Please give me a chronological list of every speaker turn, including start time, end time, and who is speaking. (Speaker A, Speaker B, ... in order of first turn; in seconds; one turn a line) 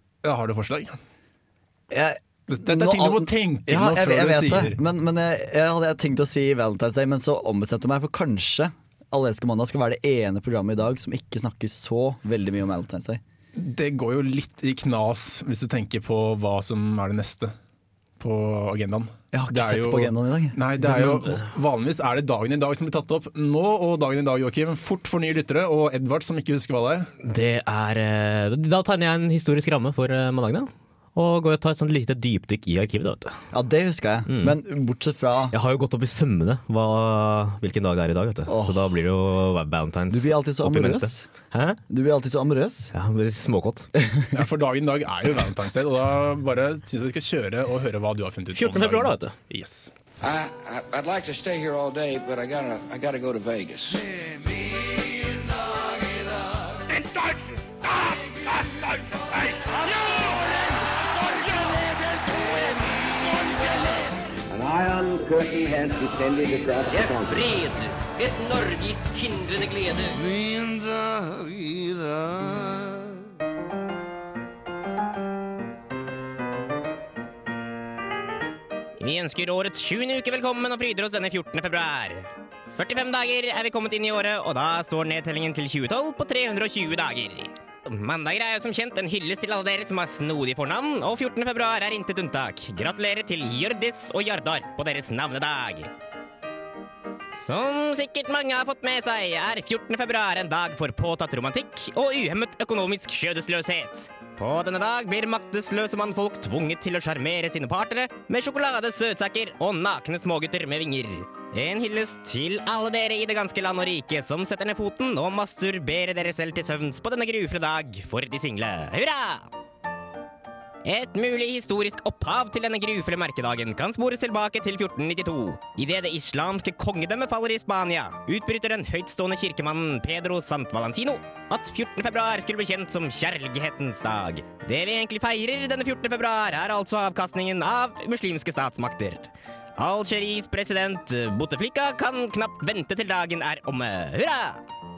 Speaker A: 0.2-0.9
Speaker B: 1.9-13.2
Speaker A: 2.5-4.8
Speaker A: 13.5-17.5
Speaker A: 18.2-27.1
Speaker B: 19.3-20.6
Speaker C: 27.2-33.4
Speaker B: 33.5-35.5
Speaker C: 34.3-34.6
Speaker C: 35.5-41.8
Speaker B: 38.5-38.9
Speaker B: 40.1-41.3
Speaker B: 41.9-42.9
Speaker C: 42.9-43.9
Speaker A: 44.3-49.9
Speaker C: 48.5-49.3
Speaker D: 50.2-54.1
Speaker E: 59.8-60.7
Speaker E: 61.4-62.5
Speaker F: 64.5-67.5
Speaker E: 66.9-70.3
Speaker C: 79.0-82.2
Speaker C: 82.8-95.9
Speaker C: 97.3-119.5
Speaker C: 120.8-144.6